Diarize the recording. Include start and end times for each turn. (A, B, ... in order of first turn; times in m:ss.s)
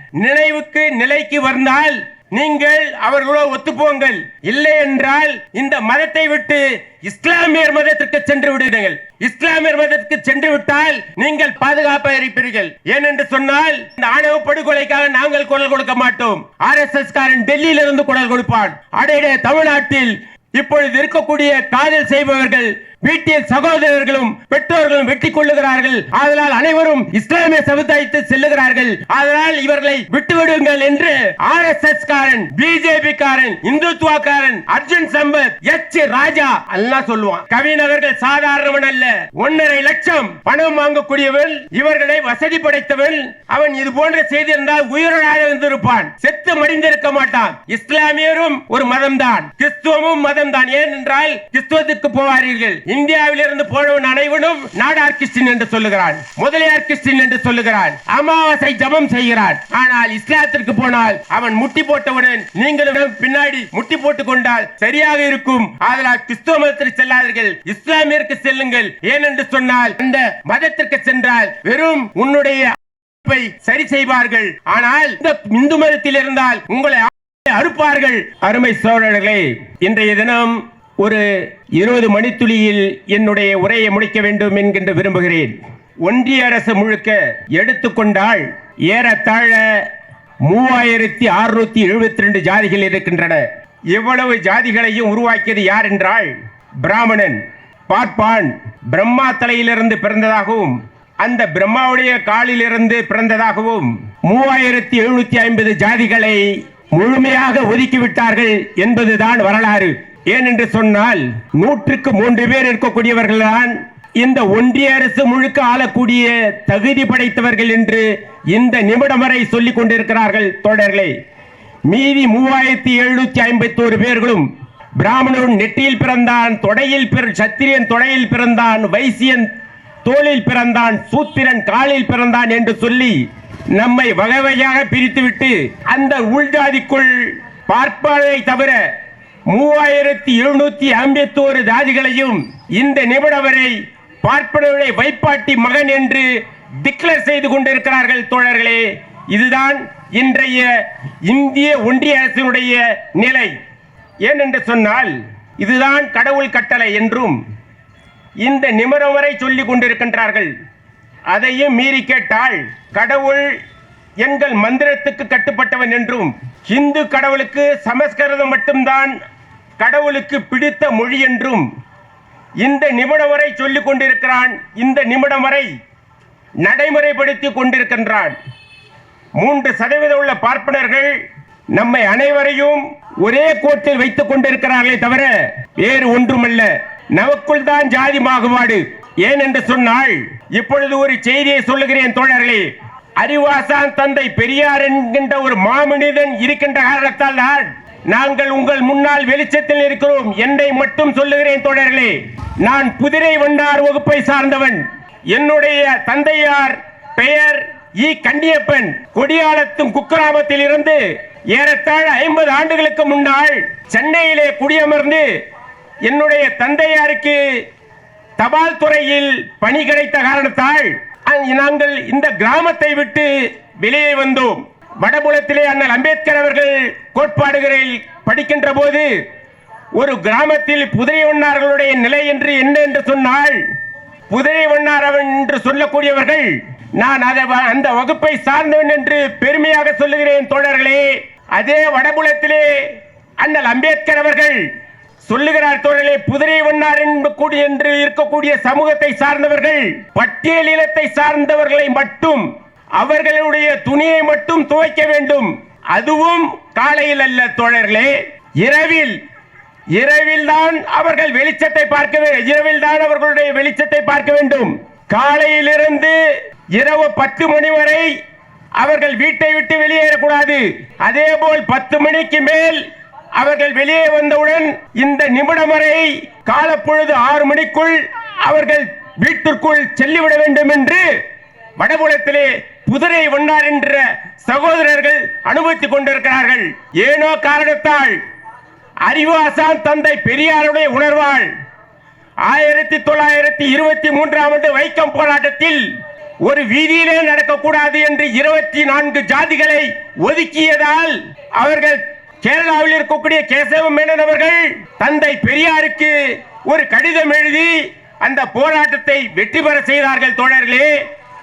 0:00.2-1:29.9 A
1:30.4-2:01.1 A
2:01.9-2:04.5 A
2:05.0-2:09.5 A
2:10.0-2:13.2 A
2:13.7-2:18.8 A
2:19.5-2:26.3 A
2:26.8-2:30.7 A
2:31.2-2:33.5 A
2:34.2-2:37.4 A
2:38.4-2:40.5 A
2:41.3-2:43.5 A
2:44.2-2:49.1 A
2:49.8-2:51.6 A
2:52.6-2:55.7 A
2:56.6-2:58.4 A
2:59.4-3:01.2 A
3:01.7-3:31.0 A
3:31.5-3:35.2 A
3:36.0-3:37.6 A
3:38.4-3:49.1 A
3:50.0-3:53.6 A
3:54.3-4:02.7 A
4:03.4-4:04.6 A
4:05.2-4:12.4 A
4:13.0-4:19.2 A
4:20.0-4:26.2 A
4:26.7-4:28.1 A
4:28.8-4:32.8 A
4:33.4-4:41.0 A
4:41.8-4:48.2 A
4:49.0-4:51.5 A
4:52.4-4:55.9 A
4:56.4-5:06.2 A
5:06.7-5:10.9 A